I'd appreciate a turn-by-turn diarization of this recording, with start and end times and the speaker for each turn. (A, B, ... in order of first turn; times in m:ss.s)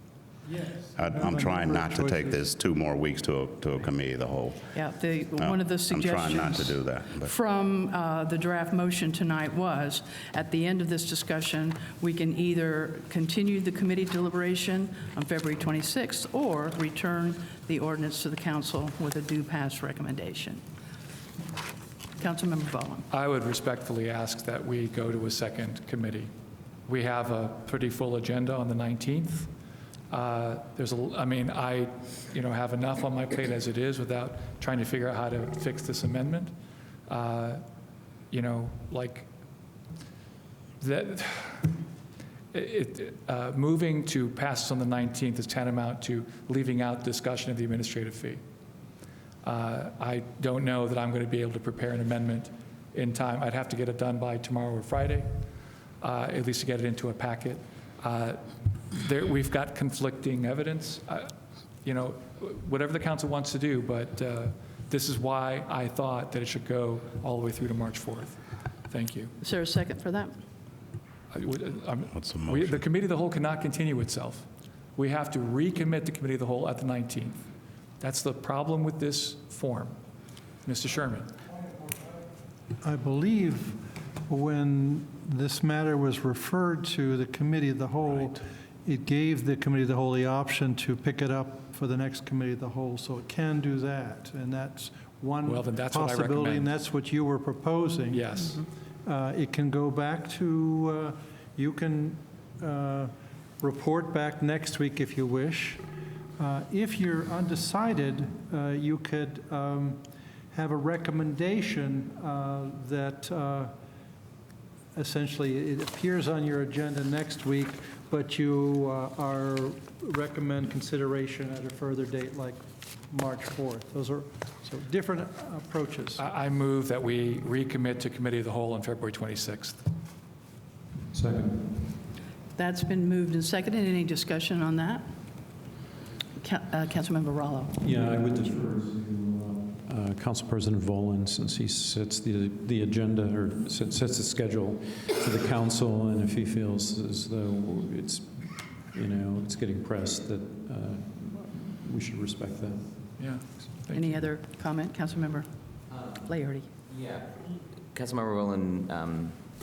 0:00.4-0:02.5 A
0:01.0-0:04.7 B
0:04.7-0:20.6 C
0:05.4-0:07.3 B
0:22.2-0:23.1 C
0:23.1-0:26.3 D
0:26.9-0:29.5 D
0:30.1-0:36.5 D
0:37.1-0:37.6 D
0:38.3-0:39.3 D
0:40.8-0:41.7 D
0:42.5-0:48.4 D
0:49.4-0:55.3 D
0:56.0-1:01.3 D
1:01.8-1:08.4 D
1:08.9-1:09.3 D
1:09.4-1:10.4 C
1:11.3-1:17.4 D
1:12.1-1:12.8 B
1:18.0-1:20.0 D
1:20.6-1:21.3 D
1:21.6-1:22.2 A
1:22.8-1:38.3 A
1:28.1-1:28.4 D
1:35.4-1:36.7 D
1:38.1-1:38.7 D
1:39.0-1:45.8 A
1:46.4-1:53.8 A
1:55.0-2:06.3 A
2:06.2-2:09.8 D
2:11.1-2:11.9 E
2:12.6-2:15.1 C
2:16.4-2:17.8 C
2:17.8-2:33.3 E
2:33.2-2:34.2 D
2:33.9-2:35.5 C
2:35.9-2:36.3 F
2:36.2-2:36.7 C
2:36.9-2:37.4 F
2:37.9-2:39.4 F